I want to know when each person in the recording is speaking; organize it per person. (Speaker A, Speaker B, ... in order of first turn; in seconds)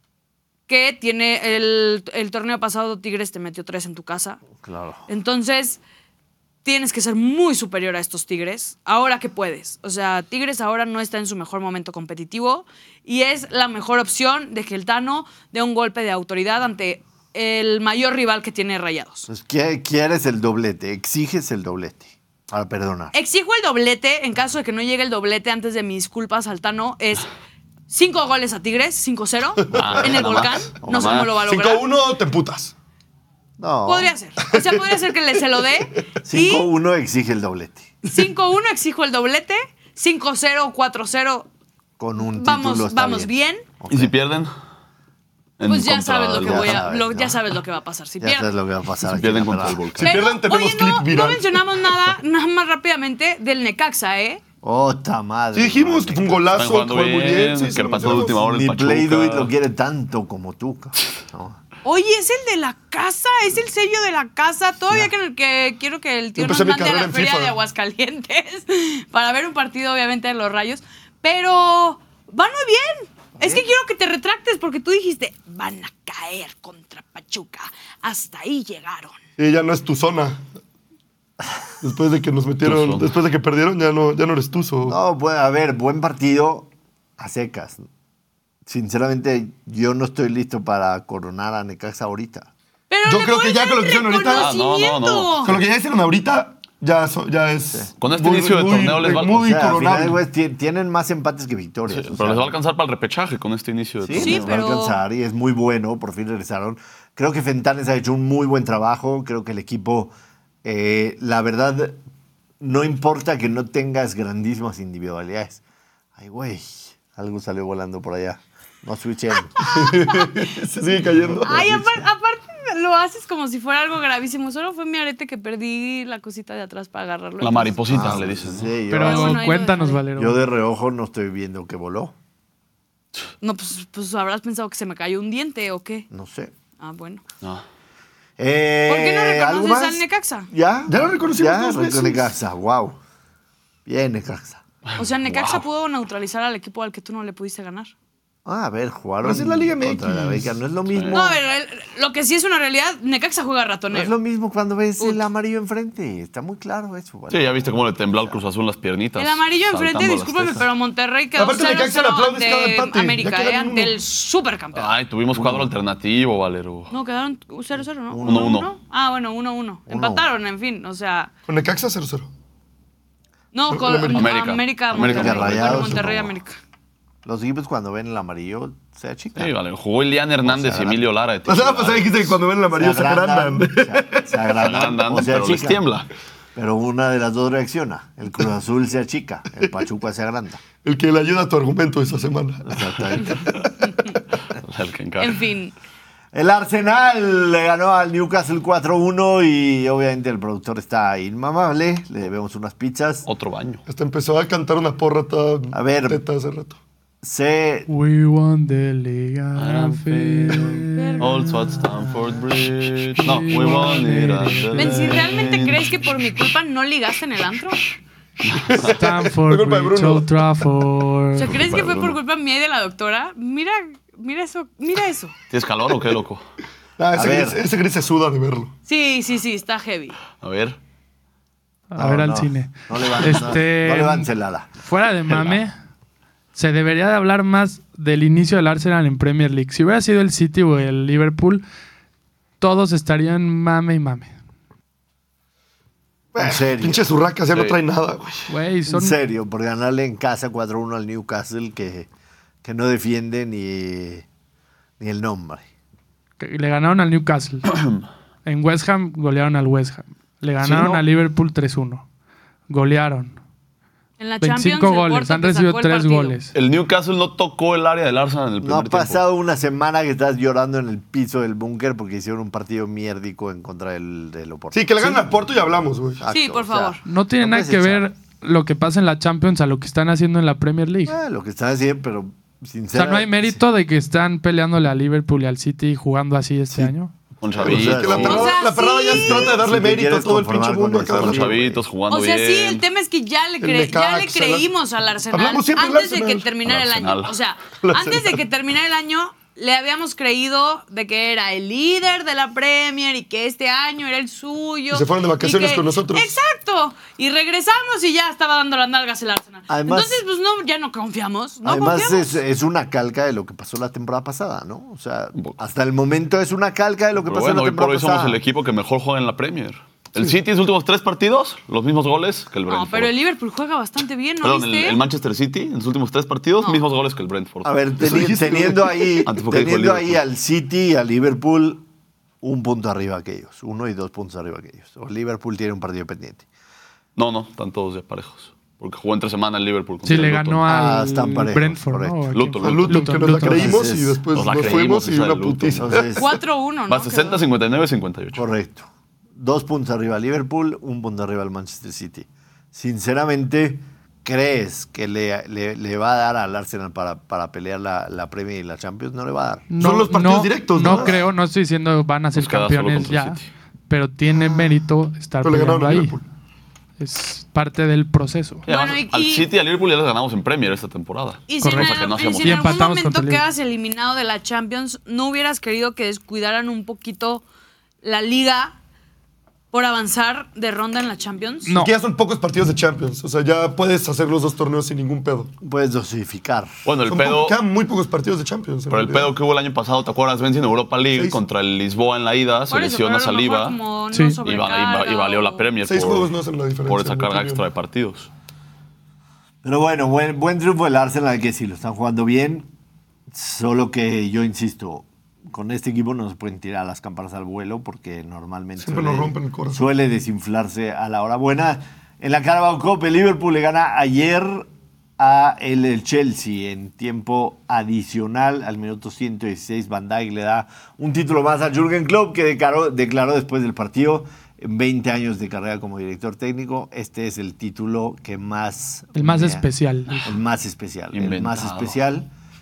Speaker A: 0.7-4.4, 5.1-5.8, 6.6-19.3, 23.1-27.3, 27.9-31.8, 33.9-36.7, 38.1-41.5, 42.2-43.6, 45.7-48.5, 50.0-54.4, 61.9-79.2, 92.9-95.5, 104.2-105.0, 119.6-120.4, 121.4-128.1, 129.0-130.0, 133.4-136.1, 136.8-137.2, 138.9-140.5, 145.0-147.9, 151.1-154.1, 159.2-164.9, 166.9-171.3, 173.5-176.6, 195.2-195.7, 210.9-211.3, 214.8-217.8, 221.3-225.3, 228.9-230.2, 264.2-266.4, 276.3-277.0, 288.2-289.5, 292.1-312.4, 322.7-325.0, 346.2-347.4, 368.7-369.5, 371.5-377.4, 378.0-378.8, 379.7-381.7, 392.7-395.6
Speaker B: 4.6-5.1, 19.3-23.1, 30.8-31.3, 33.6-34.1, 36.2-38.0, 42.0-44.1, 46.4-47.4, 48.2-49.9, 54.6-56.7, 58.2-61.6, 73.4-73.6, 84.8-87.8, 88.7-92.5, 99.3-102.6, 104.0-112.0, 112.6-115.6, 116.2-119.6, 121.3-122.0, 127.9-129.5, 130.2-132.1, 136.1-136.5, 138.4-143.0, 143.9-144.6, 148.4-151.4, 153.9-158.4, 165.3-165.7, 168.1-168.6, 169.9-170.3, 174.9-176.3, 177.2-179.5, 180.4-181.0, 182.7-185.8, 186.6-190.6, 192.7-193.6, 196.3-203.3, 205.7-206.2, 207.2-207.9, 227.1-227.6, 232.0-234.7, 246.4-247.1, 248.9-252.1, 252.6-254.3, 255.0-255.7, 260.7-260.9, 268.6-275.3, 276.2-278.0, 281.1-283.6, 287.6-288.6, 289.1-291.8, 309.7-310.2, 311.6-318.4, 327.6-331.9, 332.4-336.4, 340.7-342.3, 343.4-344.7, 345.8-346.3, 348.4-359.7, 385.6-386.7, 399.6-402.7, 403.3-429.6, 430.2-432.3
Speaker C: 29.6-30.1, 31.3-32.7, 34.5-35.0, 50.0-52.0, 55.5-58.4, 66.4-67.5, 79.4-80.4, 81.8-85.0, 93.1-94.5, 95.4-100.2, 119.6-121.7, 140.9-142.3, 149.2-150.5, 161.4-164.0, 171.5-172.3, 173.7-174.3, 181.5-184.4, 190.8-193.4, 203.9-206.8, 218.5-220.7, 227.0-228.7, 246.3-248.5, 274.7-276.2, 287.6-291.5, 293.6-294.7, 295.3-296.5, 297.8-298.4, 304.9-306.4, 328.0-329.2, 342.6-346.2, 359.8-361.2, 365.4-366.2, 381.8-385.5, 387.1-389.3, 391.1-391.4, 395.8-397.6, 408.8-409.9
Speaker D: 29.7-31.3, 43.9-44.5, 45.6-46.8, 49.1-50.2, 56.5-59.5, 82.6-83.1, 94.3-95.5, 98.0-99.4, 101.9-104.5, 127.4-128.8, 144.9-145.7, 150.9-151.3, 157.3-160.7, 164.8-166.9, 168.2-168.7, 174.1-176.0, 179.4-182.3, 184.6-186.1, 194.5-195.4, 203.3-203.8, 209.6-215.8, 218.4-218.9, 221.5-222.2, 225.5-226.4, 230.4-230.8, 235.3-235.6, 257.7-258.0, 266.5-269.2, 287.4-288.6, 291.2-292.8, 296.6-297.4, 317.2-323.1, 324.4-327.8, 329.2-330.2, 337.1-340.6, 342.3-343.3, 344.3-346.1, 346.9-348.4, 362.3-363.5, 368.7-372.8, 386.8-387.6, 388.9-393.8, 394.4-396.3, 396.9-398.3, 431.1-432.0
Speaker E: 128.9-130.4, 207.9-212.2, 213.2-215.5, 218.9-221.6, 231.9-234.3, 234.8-235.7, 236.6-241.6, 242.6-244.3, 248.5-249.2, 256.4-257.7, 258.4-262.1, 262.7-263.4, 264.4-266.5, 277.1-281.2, 282.9-287.1, 340.0-343.9, 359.7-366.2, 367.0-368.6, 371.6-373.4, 381.6-381.9, 394.1-394.4, 429.1-430.3